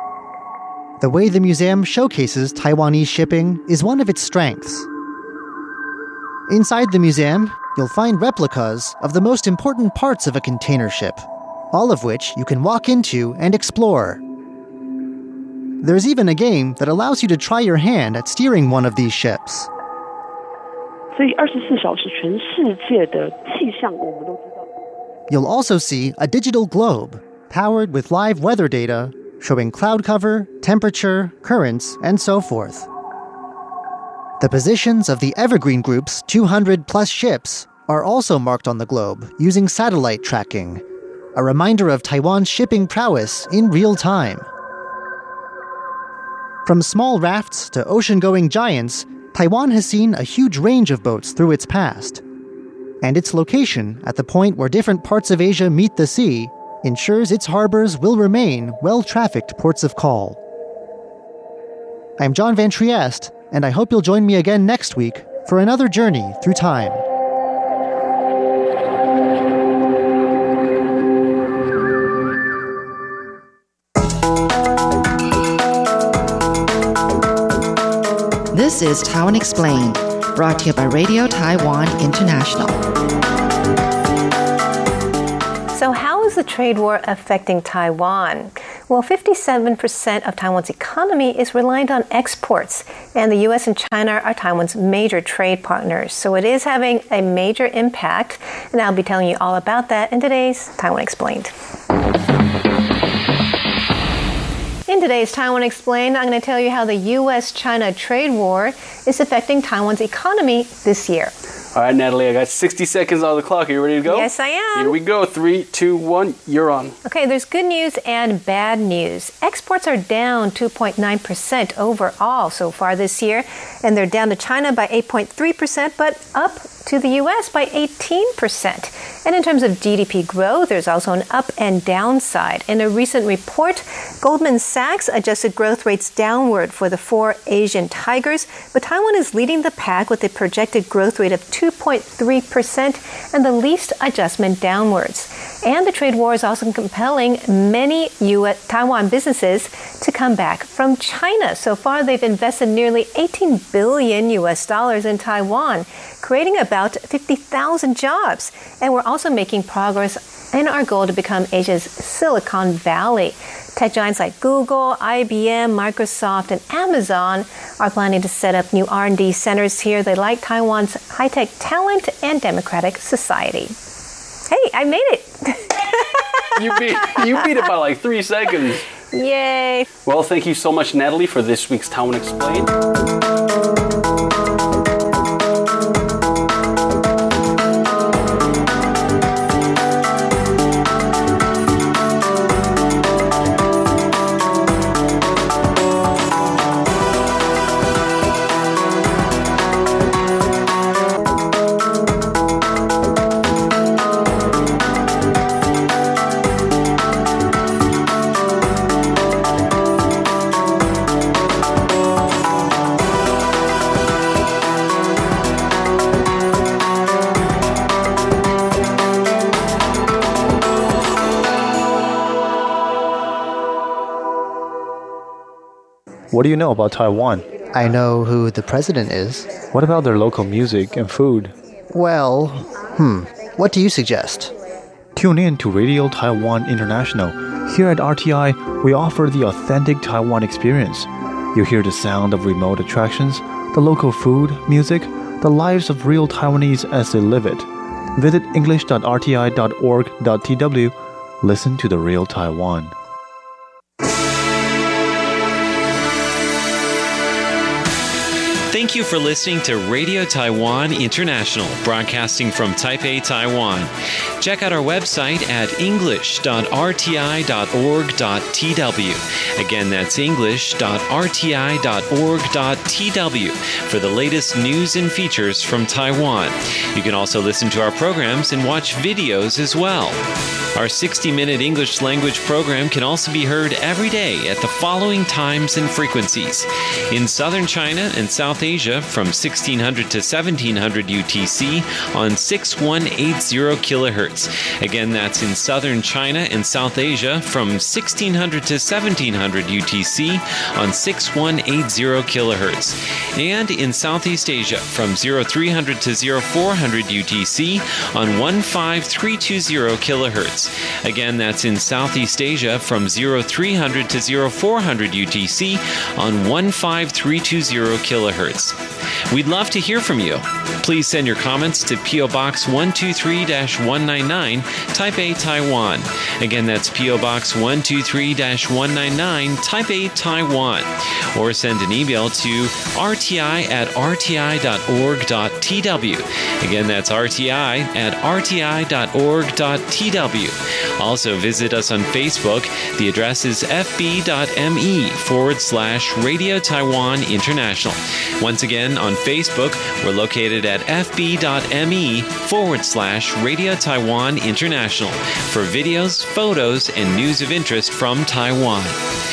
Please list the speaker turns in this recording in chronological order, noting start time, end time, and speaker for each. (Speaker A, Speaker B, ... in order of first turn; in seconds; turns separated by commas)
Speaker A: 1.0-4.9, Speaker A: 6.5-14.2, Speaker A: 15.8-19.7, Speaker B: 21.1-24.7, Speaker A: 25.3-32.9, Speaker A: 34.4-40.8, Speaker A: 41.4-44.5, Speaker A: 46.6-52.2, Speaker A: 53.0-60.4, Speaker A: 62.2-67.0, Speaker C: 78.5-82.8, Speaker D: 85.7-101.5, Speaker D: 104.9-111.3, Speaker E: 111.7-117.0, Speaker D: 114.1-115.0, Speaker D: 117.0-173.8, Speaker D: 174.5-176.6, Speaker E: 176.6-178.8, Speaker D: 179.1-179.9, Speaker E: 180.1-182.7, Speaker F: 226.3-227.7, Speaker A: 227.7-229.6, Speaker F: 229.7-231.6, Speaker A: 231.9-234.5, Speaker F: 235.2-252.9, Speaker G: 258.7-280.2, Speaker G: 280.8-359.1